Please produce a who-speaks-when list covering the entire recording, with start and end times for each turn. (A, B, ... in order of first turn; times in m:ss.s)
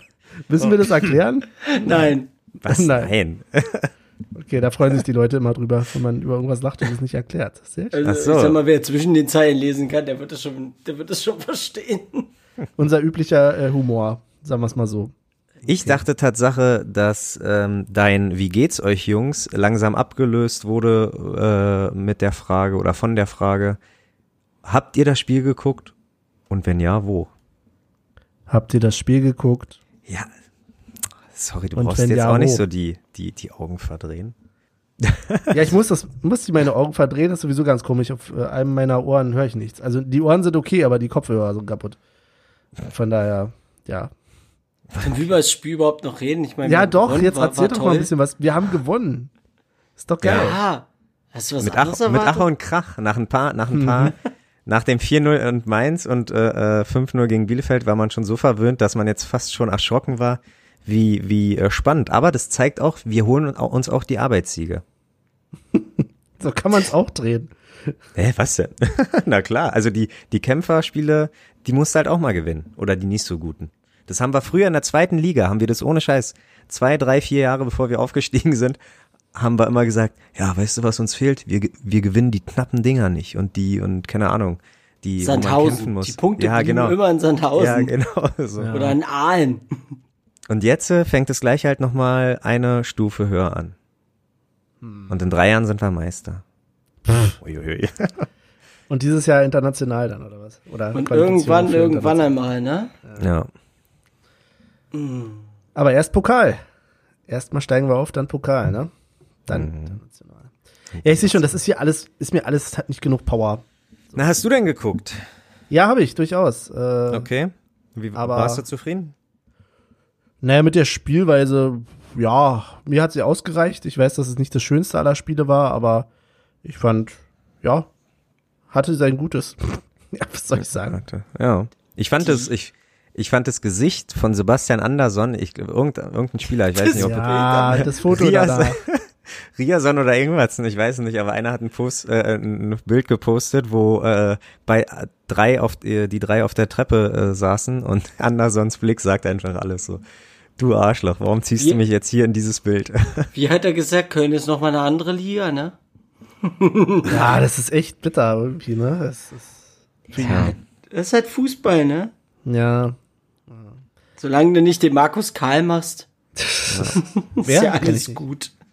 0:00.5-0:01.7 A
0:01.6-0:02.3 B
0:02.6-0:03.9 C
0:02.6-0:03.1 A
0:04.3-0:08.0 A
0:07.9-0:12.3 B
0:08.0-0:08.6 C
0:12.8-0:15.1 A
0:15.6-0:16.0 A
0:15.6-0:23.8 C
0:24.6-0:25.9 C
0:26.5-0:27.3 C
0:28.5-0:29.8 A
0:31.3-0:34.3 C
0:31.8-0:32.6 A
0:35.0-0:35.6 C
0:35.5-0:42.0 A
0:42.8-0:44.1 A
0:45.0-0:48.1 B
0:46.6-0:49.3 A
0:50.0-0:50.6 A
0:50.2-0:50.6 C
0:50.2-0:52.5 B
0:51.6-1:04.8 C
0:53.7-0:54.1 A
1:06.4-1:07.9 A
1:08.2-1:18.8 C
1:19.3-1:27.0 C
1:25.2-1:27.9 B
1:27.6-1:28.8 C
1:28.6-1:29.0 A
1:28.7-1:29.9 B
1:30.5-1:33.8 C
1:34.8-1:35.1 A
1:35.1-1:36.4 C
1:37.1-1:37.3 A
1:37.4-1:38.1 C
1:38.9-1:42.3 A
1:40.9-1:42.9 B
1:43.2-1:43.5 C
1:44.9-1:45.5 B
1:45.7-1:46.6 A
1:47.3-1:48.9 A
1:49.5-1:50.5 A
1:49.5-1:49.9 C
1:51.0-1:51.4 C
1:51.0-1:54.2 A
1:54.2-1:55.2 C
1:55.7-1:57.3 A
1:57.1-1:59.1 C
1:58.1-1:58.6 A
2:00.4-2:06.1 A
2:06.6-2:07.9 A
2:08.7-2:11.0 A
2:10.9-2:30.0 C
2:12.2-2:12.5 B
2:16.8-2:17.9 B
2:17.0-2:18.8 A
2:30.6-2:33.3 C
2:33.3-2:35.8 B
2:36.4-2:37.4 B
2:37.1-2:40.5 A
2:40.1-2:42.1 B
2:40.2-2:40.5 C
2:42.4-2:43.0 A
2:43.5-2:43.7 A
2:44.2-2:46.1 B
2:46.4-2:48.2 A
2:46.7-2:47.0 C
2:47.0-2:48.5 B